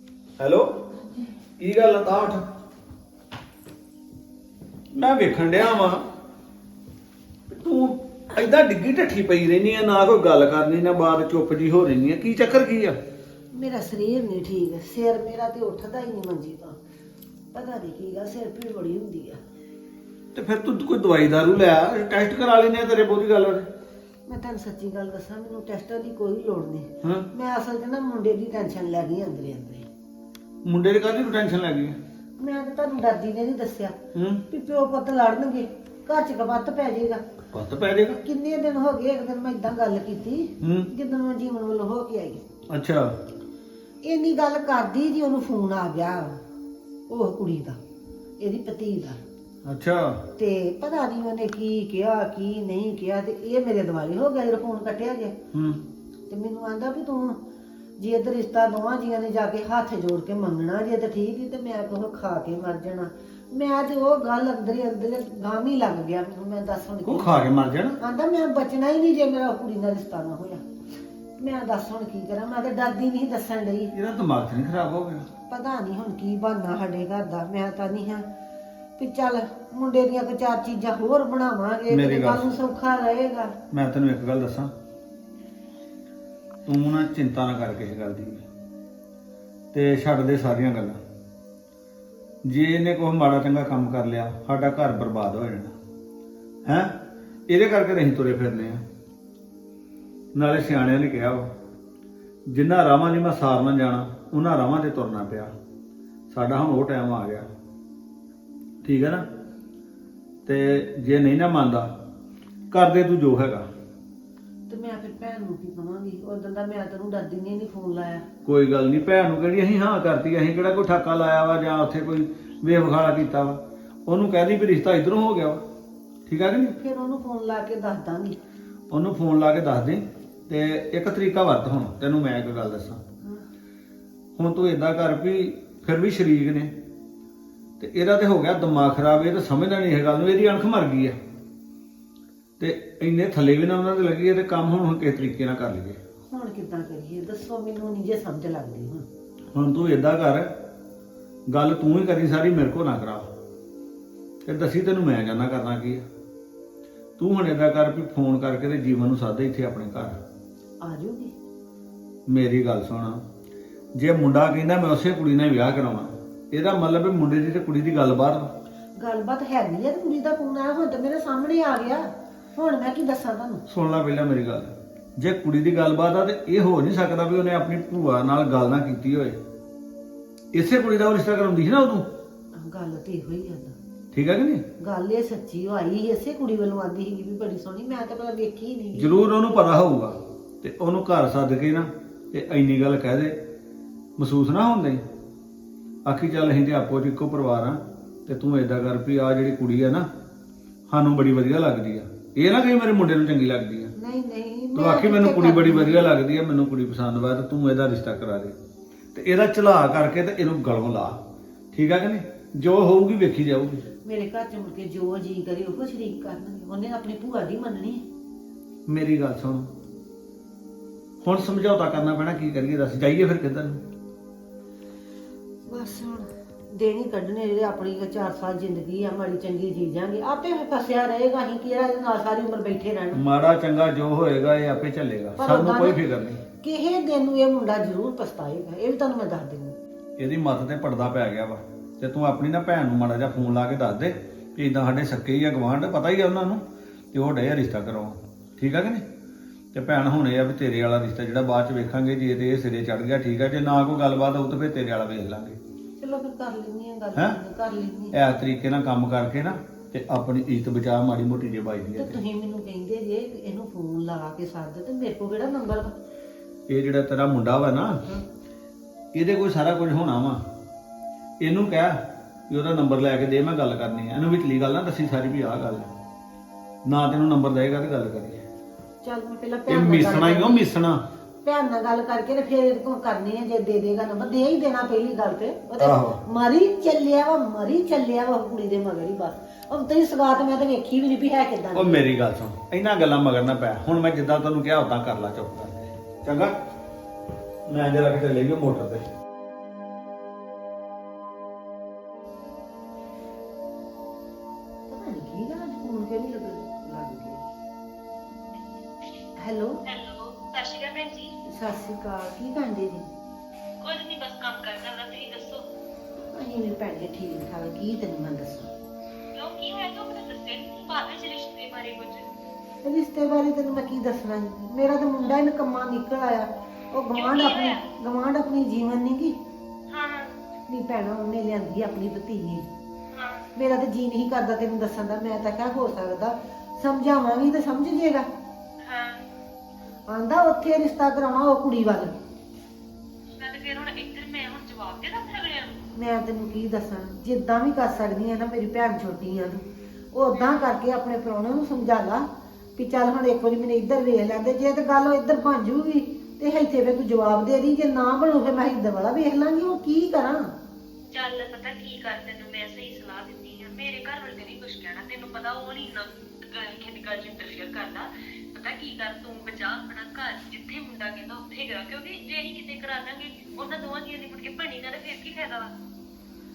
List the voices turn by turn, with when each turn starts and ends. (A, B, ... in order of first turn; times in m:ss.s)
0:00.4-0:00.7 A
0:01.6-0:02.4 A
0:04.9-0:06.0 A
0:07.5-0:13.0 A
0:13.5-0:16.8 B
0:17.5-0:19.4 B
0:20.3-0:23.7 A
0:24.3-0:29.9 B
0:27.0-0:27.3 A
0:30.6-0:32.0 A
0:32.4-0:34.0 B
0:34.1-0:34.4 A
0:34.5-0:37.2 B
0:37.5-0:38.2 A
0:38.2-0:42.4 B
0:40.6-0:40.9 A
0:42.7-0:43.1 A
0:44.0-0:46.4 B
0:47.1-0:47.8 B
0:48.4-0:49.2 B
0:49.6-0:50.2 A
0:50.4-0:55.3 B
0:55.5-0:55.8 A
0:56.3-0:57.4 B
0:58.0-1:07.4 B
1:07.1-1:08.0 A
1:08.0-1:10.6 B
1:11.4-1:13.9 B
1:13.9-1:15.2 A
1:15.5-1:18.2 B
1:19.0-1:23.5 B
1:21.9-1:22.4 A
1:23.7-1:24.7 A
1:26.7-1:28.4 A
1:29.7-1:31.0 A
1:32.4-1:35.7 A
1:36.7-1:36.9 A
1:37.5-1:38.8 A
1:40.3-1:41.4 A
1:42.5-1:45.5 A
1:46.3-1:47.5 A
1:48.8-1:49.2 A
1:50.4-1:51.9 A
1:52.7-1:53.7 A
1:54.7-1:58.2 B
1:58.4-2:05.6 A
2:06.3-2:06.8 A
2:06.8-2:08.4 B
2:08.9-2:13.0 A
2:14.4-2:16.7 A
2:17.8-2:21.2 A
2:22.6-2:26.0 A
2:26.3-2:29.1 B
2:29.5-2:30.5 A
2:31.5-2:33.3 A
2:34.4-2:36.0 A
2:37.2-2:40.2 A
2:40.8-2:41.3 B
2:42.3-2:43.2 A
2:44.0-2:48.5 A
2:49.0-2:53.6 B
2:53.7-2:59.4 A
3:00.5-3:02.1 A
3:02.6-3:03.7 B
3:04.1-3:04.6 A
3:04.8-3:09.2 B
3:09.0-3:13.4 A
3:14.2-3:15.0 A
3:16.1-3:20.1 A
3:20.9-3:23.9 A
3:24.0-3:26.1 B
3:24.8-3:28.5 A
3:29.1-3:31.2 A
3:31.7-3:33.8 A
3:34.0-3:38.0 B
3:38.9-3:39.7 A
3:41.2-3:43.8 A
3:45.7-3:53.2 B
3:53.2-3:56.4 A
3:55.4-3:59.7 B
4:00.2-4:09.0 A
4:09.7-4:15.6 A
4:16.0-4:18.1 B
4:17.1-4:17.4 A
4:18.1-4:22.2 A
4:22.0-4:25.9 B
4:26.7-4:28.0 A
4:29.1-4:30.4 A
4:31.4-4:32.0 A
4:32.5-4:35.9 A
4:36.8-4:38.4 A
4:39.0-4:40.7 B
4:39.7-4:41.0 A
4:41.4-4:52.1 B
4:45.8-4:46.2 A
4:51.8-4:56.5 A
4:57.7-4:59.0 A
5:04.9-5:07.4 B
5:09.4-5:09.7 B
5:09.9-5:11.3 C
5:11.5-5:13.0 B
5:13.8-5:15.6 C
5:16.3-5:18.7 B
5:19.3-5:22.2 C
5:22.8-5:29.4 B
5:27.1-5:27.8 C
5:29.9-5:30.3 C
5:30.7-5:32.7 B
5:33.1-5:33.4 C
5:33.6-5:38.2 B
5:38.8-5:39.2 C
5:40.1-5:42.1 B
5:43.4-5:45.9 C
5:45.9-5:49.6 B
5:50.1-6:00.5 B
6:01.1-6:15.7 C